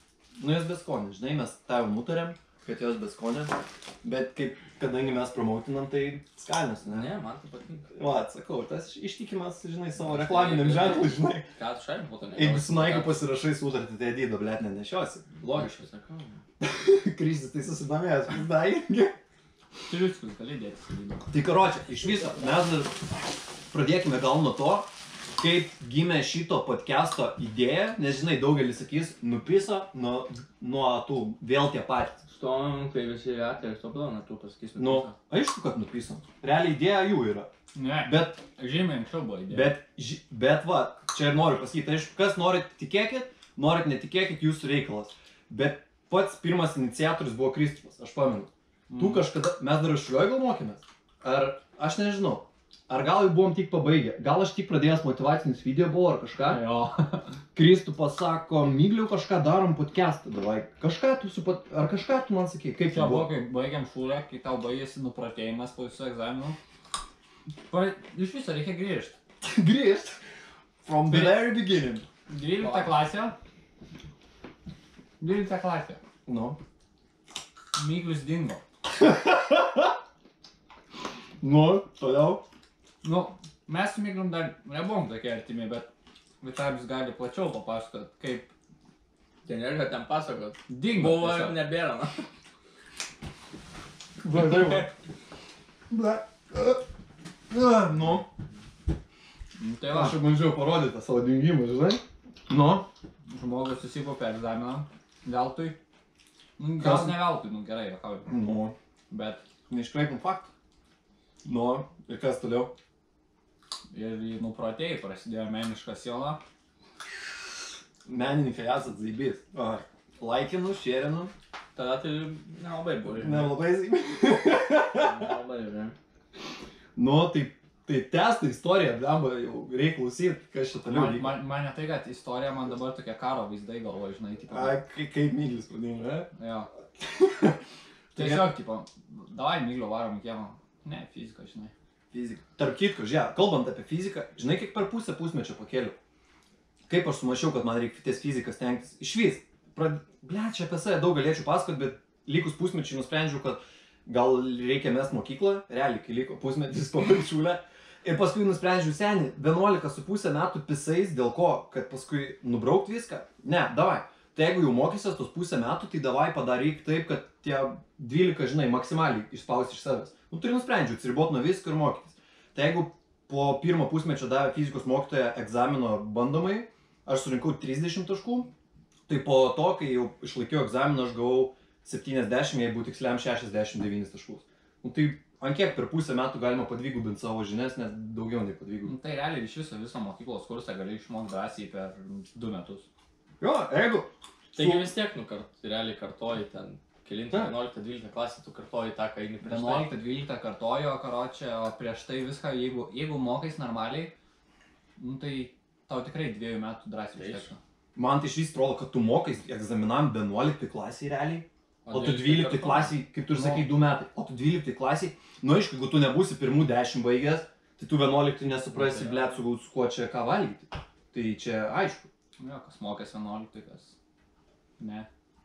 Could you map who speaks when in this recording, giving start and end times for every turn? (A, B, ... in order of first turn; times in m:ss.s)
0:00.4-0:07.1 A
0:06.8-0:08.0 B
0:07.9-0:11.5 A
0:10.0-0:13.2 B
0:12.4-0:15.3 A
0:15.4-0:16.4 B
0:16.6-0:19.2 A
0:19.9-0:21.3 C
0:21.3-0:32.2 A
0:32.3-0:35.1 B
0:34.8-0:37.5 A
0:37.7-0:39.7 C
0:38.0-0:38.4 A
0:39.5-0:56.6 A
0:48.9-0:49.3 C
0:56.4-0:57.3 C
0:57.5-1:03.3 A
1:02.8-1:06.6 C
1:07.7-1:09.2 C
1:09.4-1:10.2 A
1:10.8-1:12.0 A
1:11.1-1:11.4 C
1:12.3-1:13.4 C
1:12.6-1:12.9 B
1:15.2-1:16.0 C
1:16.2-1:16.6 A
1:17.8-1:18.6 C
1:19.0-1:19.9 A
1:21.4-1:22.4 A
1:23.0-1:25.9 C
1:26.4-1:28.5 C
1:29.4-1:32.2 B
1:30.7-1:31.6 C
1:34.2-1:34.9 A
1:34.3-1:34.9 B
1:35.9-1:36.8 A
1:37.5-1:38.2 A
1:39.6-1:40.2 C
1:39.9-1:42.8 A
1:43.3-1:45.8 C
1:46.6-1:48.3 C
1:46.8-1:47.3 A
1:48.2-1:48.8 A
1:49.1-1:49.4 C
1:49.7-1:50.5 A
1:51.4-1:52.7 A
1:53.9-1:56.4 C
1:58.0-2:01.3 A
2:01.7-2:03.6 B
2:03.1-2:05.3 A
2:04.9-2:05.9 B
2:07.0-2:11.4 A
2:10.8-2:14.8 C
2:14.5-2:16.3 A
2:16.4-2:16.7 C
2:17.0-2:17.6 A
2:18.1-2:18.5 A
2:18.1-2:21.7 C
2:22.1-2:26.0 A
2:26.9-2:58.5 A
2:59.1-3:08.9 A
3:08.8-3:12.8 C
3:13.4-3:14.9 A
3:14.5-3:19.9 B
3:19.4-3:24.1 C
3:25.0-3:27.6 C
3:27.1-3:27.5 B
3:28.0-3:42.1 A
3:31.8-3:33.0 B
3:33.4-3:33.6 C
3:38.7-3:39.4 B
3:42.4-3:43.9 C
3:44.8-3:45.1 C